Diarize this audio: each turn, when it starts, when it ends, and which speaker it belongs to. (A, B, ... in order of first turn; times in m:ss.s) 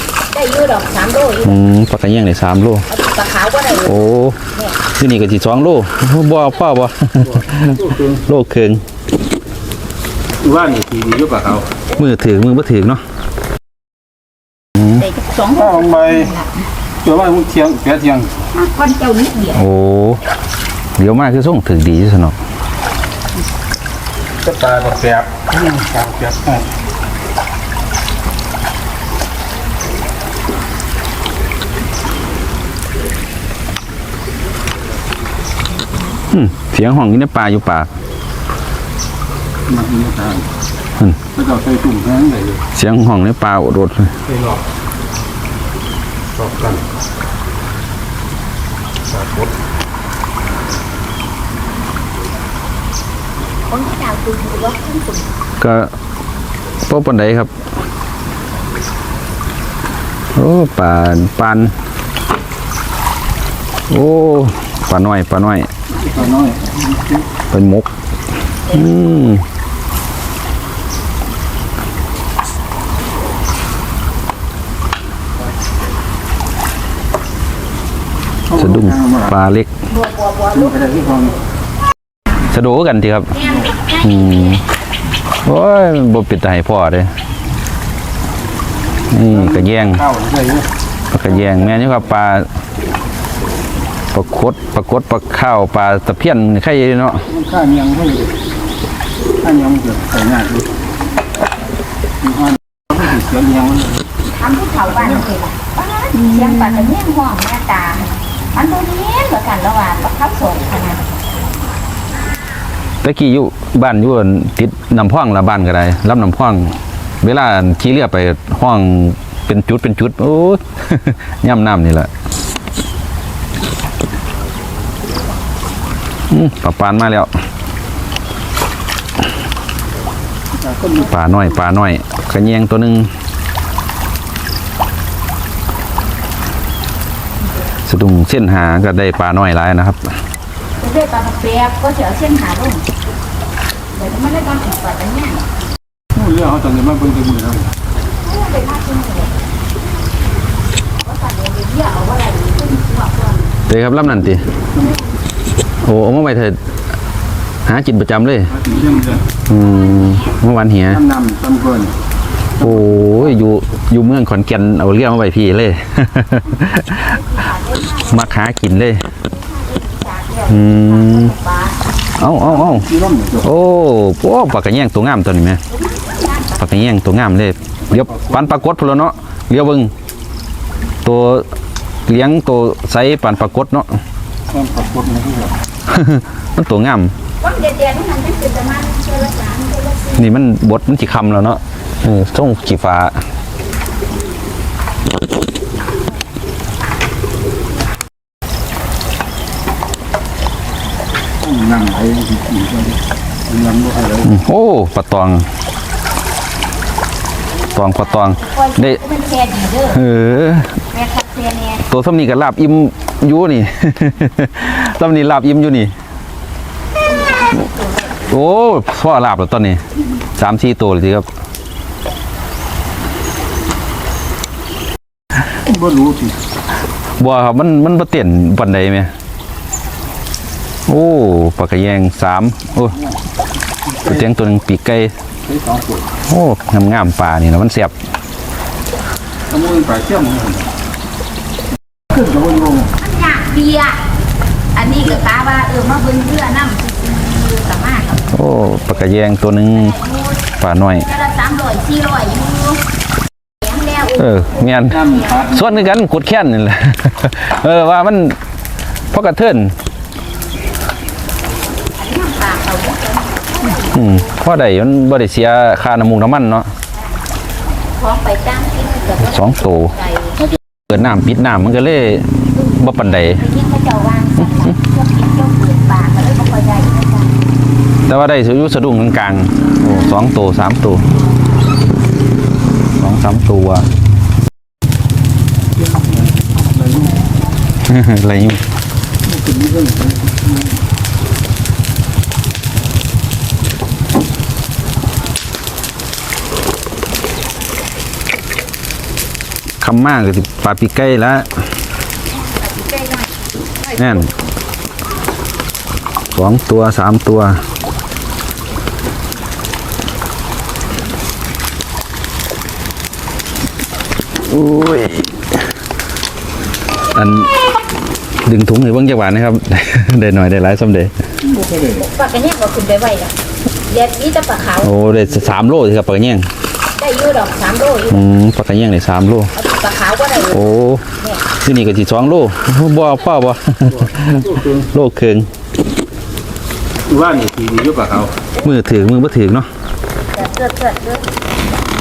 0:00.3-0:01.6 A
0:01.4-0:02.9 B
0:02.9-0:04.8 A
0:03.8-0:04.4 B
0:05.0-0:08.8 B
0:07.2-0:08.2 C
0:10.4-0:11.7 C
0:12.0-0:13.0 B
0:14.9-0:16.6 A
0:15.6-0:16.3 C
0:17.0-0:18.4 C
0:18.5-0:19.6 A
0:19.5-0:20.2 B
0:21.0-0:22.4 B
0:24.4-0:26.7 C
0:36.3-0:37.9 B
0:39.7-0:40.5 C
0:41.3-0:42.6 C
0:42.7-0:44.1 B
0:44.3-0:44.6 C
0:46.4-0:46.8 C
0:49.1-0:49.5 C
0:53.7-0:55.3 A
0:55.6-0:55.9 B
0:56.9-0:57.5 B
1:00.4-1:01.7 B
1:03.9-1:05.7 B
1:06.0-1:07.3 C
1:07.5-1:07.9 B
1:08.7-1:09.4 B
1:18.5-1:19.3 C
1:18.5-1:19.7 B
1:19.9-1:20.8 A
1:20.5-1:21.4 C
1:22.5-1:23.4 B
1:23.3-1:24.7 A
1:24.0-1:24.6 B
1:25.4-1:27.1 B
1:29.1-1:30.0 B
1:29.3-1:30.7 C
1:31.1-1:32.5 B
1:34.1-1:37.3 B
1:37.3-1:38.3 C
1:39.4-1:40.8 C
1:42.2-1:44.0 C
1:44.3-1:51.1 A
1:44.9-1:45.2 C
1:53.0-2:02.1 B
2:06.3-2:07.3 B
2:10.5-2:11.1 C
2:11.1-2:13.1 B
2:17.8-2:20.1 B
2:20.8-2:22.9 A
2:23.9-2:25.4 A
2:26.2-2:27.7 C
2:28.2-2:29.4 A
2:31.0-2:33.5 A
2:33.7-2:34.5 B
2:35.8-2:36.6 B
2:37.7-2:38.5 B
2:38.5-2:39.3 C
2:39.5-2:41.0 B
2:39.5-2:40.4 A
2:40.9-2:41.9 C
2:42.6-2:43.4 C
2:42.6-2:47.2 B
2:47.1-2:48.4 A
2:48.1-2:49.1 B
2:49.2-2:51.8 A
2:50.5-2:51.4 B
2:52.2-2:52.9 B
2:52.5-2:53.5 C
2:53.4-2:55.6 B
2:55.7-2:56.6 A
2:56.6-2:59.9 B
2:57.9-2:58.6 C
3:01.0-3:01.5 B
3:02.1-3:03.9 B
3:04.5-3:05.5 C
3:05.9-3:07.1 B
3:07.4-3:10.3 A
3:10.2-3:13.2 B
3:21.4-3:24.4 C
3:24.2-3:25.5 B
3:27.6-3:30.0 A
3:27.8-3:29.0 B
3:29.9-3:30.8 B
3:30.9-3:31.8 A
3:31.9-3:35.9 B
3:37.2-3:38.2 A
3:38.3-3:39.8 B
3:40.4-3:41.3 B
3:45.6-3:46.4 C
3:47.2-3:49.1 B
3:50.9-3:53.0 B
3:54.0-3:55.1 B
3:55.4-3:56.1 C
3:56.3-3:58.0 B
3:59.5-4:00.7 C
4:02.1-4:02.9 C
4:03.0-4:04.0 A
4:04.7-4:08.3 A
4:08.3-4:10.0 B
4:09.8-4:12.8 A
4:10.6-4:11.1 B
4:13.6-4:14.5 A
4:14.2-4:18.4 B
4:14.7-4:15.8 C
4:19.1-4:19.8 B
4:22.0-4:24.3 A
4:23.9-4:26.7 B
4:28.0-4:30.6 A
4:29.2-4:30.0 B
4:30.9-4:33.4 B
4:32.6-4:37.3 A
4:34.4-4:34.7 B
4:38.1-4:41.0 B
4:43.0-4:43.9 B
4:45.8-4:47.2 C
4:47.8-4:48.6 B
4:49.3-4:50.8 C
4:59.8-5:01.5 B
5:02.5-5:03.2 A
5:04.0-5:04.3 B
5:06.3-5:07.6 B
5:14.5-5:15.4 B
5:17.1-5:17.5 B
5:18.4-5:21.1 B
5:21.5-5:22.0 C
5:21.9-5:23.3 A
5:23.9-5:24.9 A
5:24.8-5:26.5 B
5:27.0-5:28.2 A
5:28.1-5:29.5 B
5:29.5-5:31.4 A
5:30.5-5:31.0 B
5:31.6-5:35.5 B
5:33.9-5:34.9 C
5:37.1-5:38.4 C
5:38.6-5:39.7 B
5:40.3-5:41.3 A